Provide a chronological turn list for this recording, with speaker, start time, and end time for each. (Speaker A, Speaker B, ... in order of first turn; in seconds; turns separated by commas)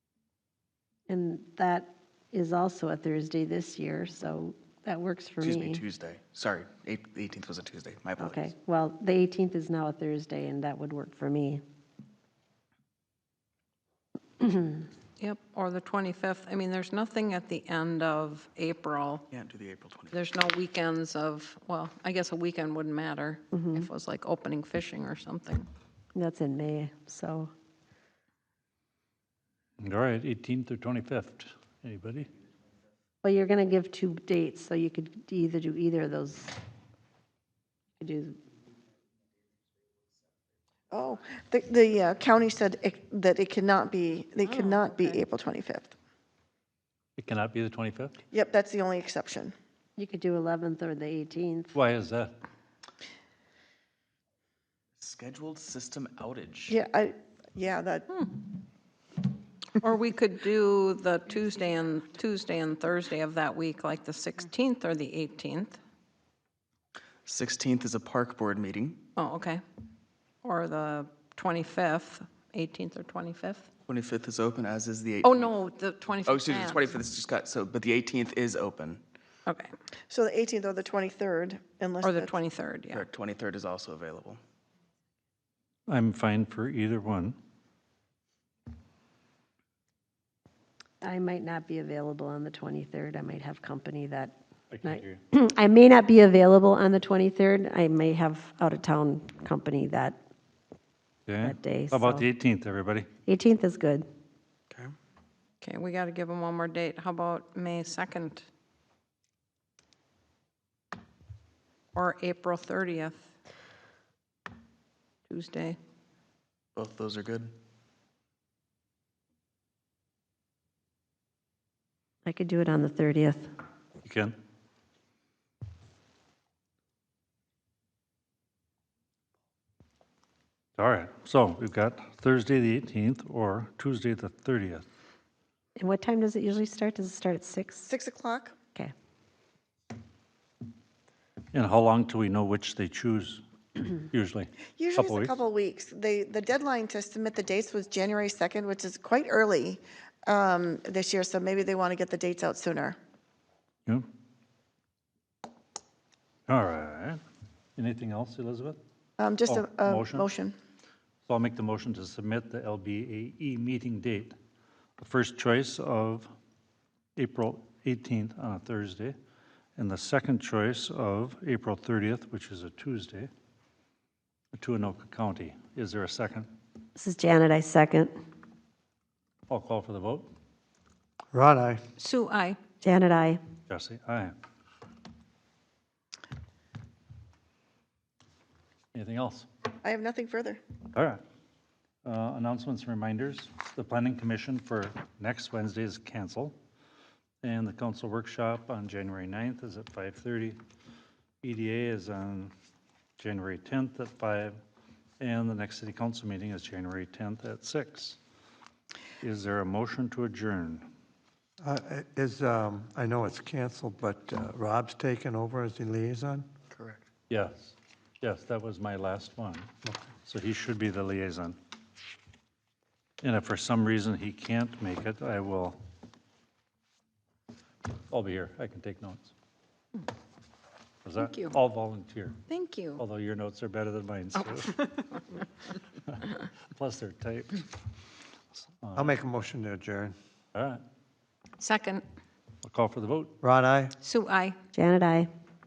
Speaker A: 1.1-5.8, Speaker B: 5.4-8.5, Speaker A: 8.2-11.6, Speaker A: 14.4-14.9, Speaker C: 15.2-19.2, Speaker B: 19.3-20.2, Speaker C: 20.1-25.7, Speaker A: 23.5-23.9, Speaker A: 26.1-27.5, Speaker D: 29.8-32.3, Speaker A: 33.2-36.5, Speaker A: 38.0-38.4, Speaker E: 40.9-45.9, Speaker C: 44.4-45.2, Speaker D: 47.2-48.1, Speaker E: 48.3-49.5, Speaker A: 50.0-51.8, Speaker D: 51.7-52.3, Speaker B: 55.0-56.8, Speaker E: 56.7-58.1, Speaker C: 59.8-65.8, Speaker B: 67.2-69.0, Speaker C: 69.2-69.6, Speaker C: 70.4-73.7, Speaker B: 73.9-75.5, Speaker C: 75.2-76.9, Speaker B: 76.2-79.0, Speaker C: 79.5-79.7, Speaker E: 80.1-82.3, Speaker C: 82.0-83.0, Speaker B: 82.9-84.4, Speaker D: 85.9-87.4, Speaker A: 91.0-94.3, Speaker D: 94.7-95.2, Speaker A: 94.8-100.2, Speaker D: 101.3-103.1, Speaker A: 101.4-102.3, Speaker A: 103.2-104.1, Speaker C: 105.6-108.5, Speaker C: 111.9-113.3, Speaker C: 115.3-115.8, Speaker B: 116.8-117.5, Speaker A: 122.2-123.5, Speaker D: 124.0-124.3, Speaker D: 130.8-134.8, Speaker A: 135.8-137.9, Speaker E: 137.9-138.6, Speaker D: 141.5-145.4, Speaker E: 144.8-153.0, Speaker D: 156.5-157.2, Speaker D: 157.8-158.8, Speaker E: 159.2-160.6, Speaker D: 159.5-160.3, Speaker D: 161.3-164.4, Speaker D: 165.0-166.3, Speaker D: 167.2-169.2, Speaker D: 169.8-173.3, Speaker D: 174.5-176.5, Speaker A: 177.0-178.1, Speaker D: 179.5-180.3, Speaker F: 181.3-181.8, Speaker C: 182.0-182.6, Speaker A: 182.8-183.4, Speaker D: 183.7-184.3, Speaker D: 188.9-189.5, Speaker E: 189.8-190.6, Speaker D: 190.9-191.2, Speaker D: 192.1-196.6, Speaker D: 197.4-200.6, Speaker D: 201.4-202.5, Speaker D: 203.2-204.6, Speaker D: 205.2-208.2, Speaker D: 209.2-210.9, Speaker F: 211.6-216.5, Speaker B: 216.8-217.0, Speaker D: 217.3-219.7, Speaker D: 220.3-221.6, Speaker D: 223.2-225.8, Speaker D: 228.1-229.3, Speaker D: 231.1-232.4, Speaker C: 231.2-231.6, Speaker C: 232.5-233.0, Speaker D: 233.0-234.8, Speaker D: 236.1-237.7, Speaker D: 238.8-239.2, Speaker F: 239.0-240.2, Speaker D: 240.6-240.8, Speaker C: 241.6-242.1, Speaker D: 242.6-243.3, Speaker F: 243.4-243.9, Speaker C: 244.0-244.6, Speaker A: 244.7-245.3